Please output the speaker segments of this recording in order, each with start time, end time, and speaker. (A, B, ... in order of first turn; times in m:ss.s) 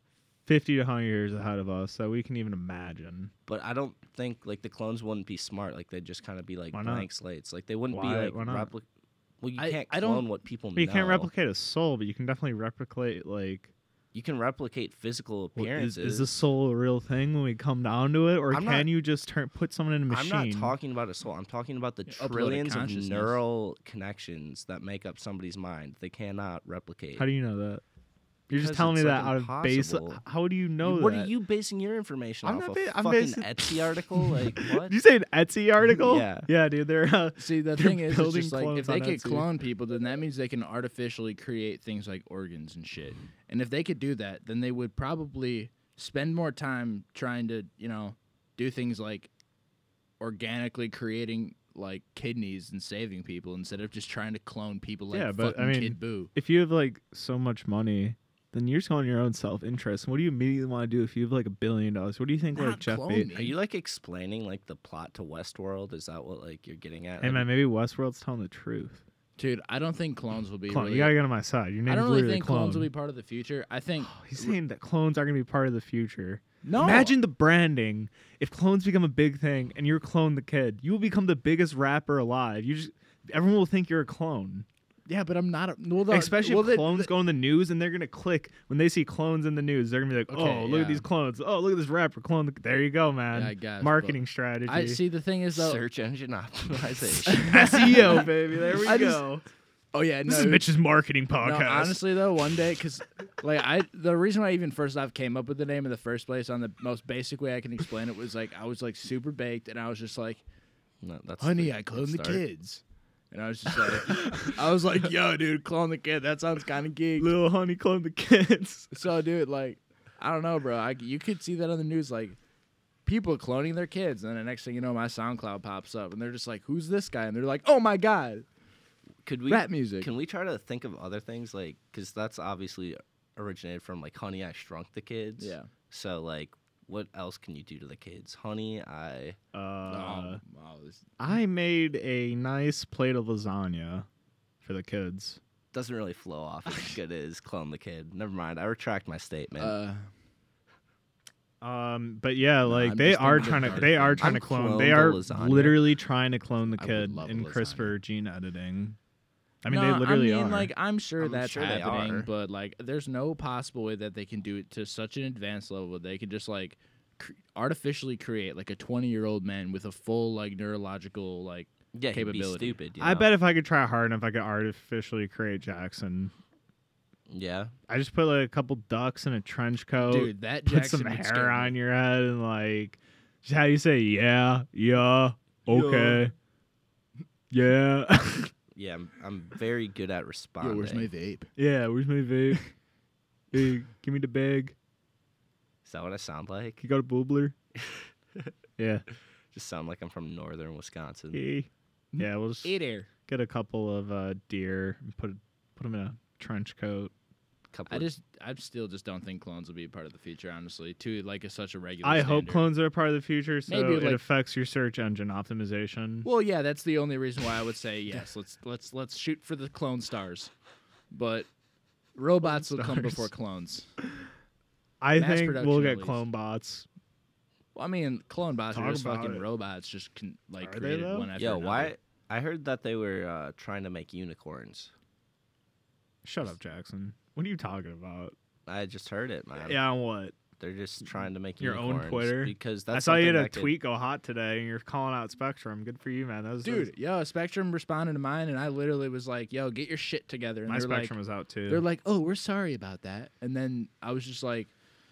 0:00.4-0:03.3 A
0:03.5-0:08.8 B
0:06.7-0:07.1 A
0:07.9-0:08.7 A
0:09.4-0:11.3 B
0:09.6-0:10.2 C
0:10.7-0:13.7 A
0:14.1-0:16.3 B
0:15.6-0:20.7 A
0:18.5-0:18.9 B
0:20.1-0:27.3 B
0:22.1-0:23.4 C
0:27.2-0:27.8 A
0:28.5-0:31.3 A
0:28.5-0:30.2 B
0:30.8-0:35.0 B
0:32.4-0:39.5 A
0:36.0-0:36.5 B
0:37.4-0:49.3 C
0:50.2-0:56.3 C
0:55.1-1:03.3 A
1:02.5-1:03.5 C
1:03.3-1:07.5 B
1:07.2-1:09.0 A
1:09.4-1:11.2 C
1:10.7-1:12.9 A
1:11.9-1:14.6 C
1:14.0-1:24.7 A
1:16.6-1:17.2 C
1:25.1-1:27.1 C
1:26.1-1:35.0 A
1:30.3-1:31.0 C
1:33.3-1:35.8 C
1:35.6-1:38.1 B
1:37.3-1:39.2 C
1:37.5-1:39.4 A
1:39.9-1:40.6 C
1:40.3-1:42.0 A
1:41.4-1:50.4 C
1:51.0-1:52.4 B
1:51.4-1:57.3 C
1:57.2-1:59.0 A
1:58.9-2:02.4 C
2:03.0-2:08.4 C
2:09.2-2:19.4 B
2:09.5-2:10.1 C
2:15.4-2:15.7 C
2:19.5-2:20.4 A
2:19.9-2:21.1 C
2:21.2-2:24.1 A
2:24.6-2:25.4 A
2:25.7-2:29.8 B
2:26.7-2:27.0 C
2:29.6-2:30.1 C
2:31.6-2:39.0 A
2:32.6-2:34.4 C
2:33.4-2:35.9 B
2:36.7-2:37.9 C
2:39.6-2:40.7 A
2:39.7-2:52.8 C
2:41.2-2:42.3 B
2:51.9-2:53.3 B
2:53.0-2:56.3 A
2:57.3-2:57.7 B
2:57.9-3:06.3 A
3:00.0-3:01.8 C
3:05.7-3:06.3 C
3:07.5-3:08.5 A
3:08.7-3:11.1 B
3:10.6-3:11.5 C
3:11.6-3:12.6 A
3:13.5-3:14.7 A
3:15.8-3:16.8 B
3:16.8-3:17.5 A
3:17.7-3:18.5 B
3:18.8-3:19.0 A
3:19.5-3:21.4 B
3:21.3-3:22.7 A
3:22.2-3:23.1 C
3:23.2-3:27.1 A
3:27.7-3:28.1 B
3:27.9-3:32.7 C
3:32.0-3:36.3 A
3:33.7-3:34.2 C
3:36.2-3:40.5 C
3:41.1-3:41.5 C
3:42.2-3:43.9 C
3:42.4-3:43.3 A
3:45.0-3:46.9 A
3:45.1-3:46.2 C
3:47.7-3:51.9 C
3:48.7-3:49.4 A
3:50.6-3:51.3 A
3:51.4-3:54.9 B
3:56.2-3:58.4 A
3:58.6-3:59.8 B
3:59.6-4:00.4 A
4:00.6-4:03.8 B
4:01.6-4:06.9 A
4:06.6-4:11.1 C
4:10.7-4:11.8 A
4:11.7-4:14.7 C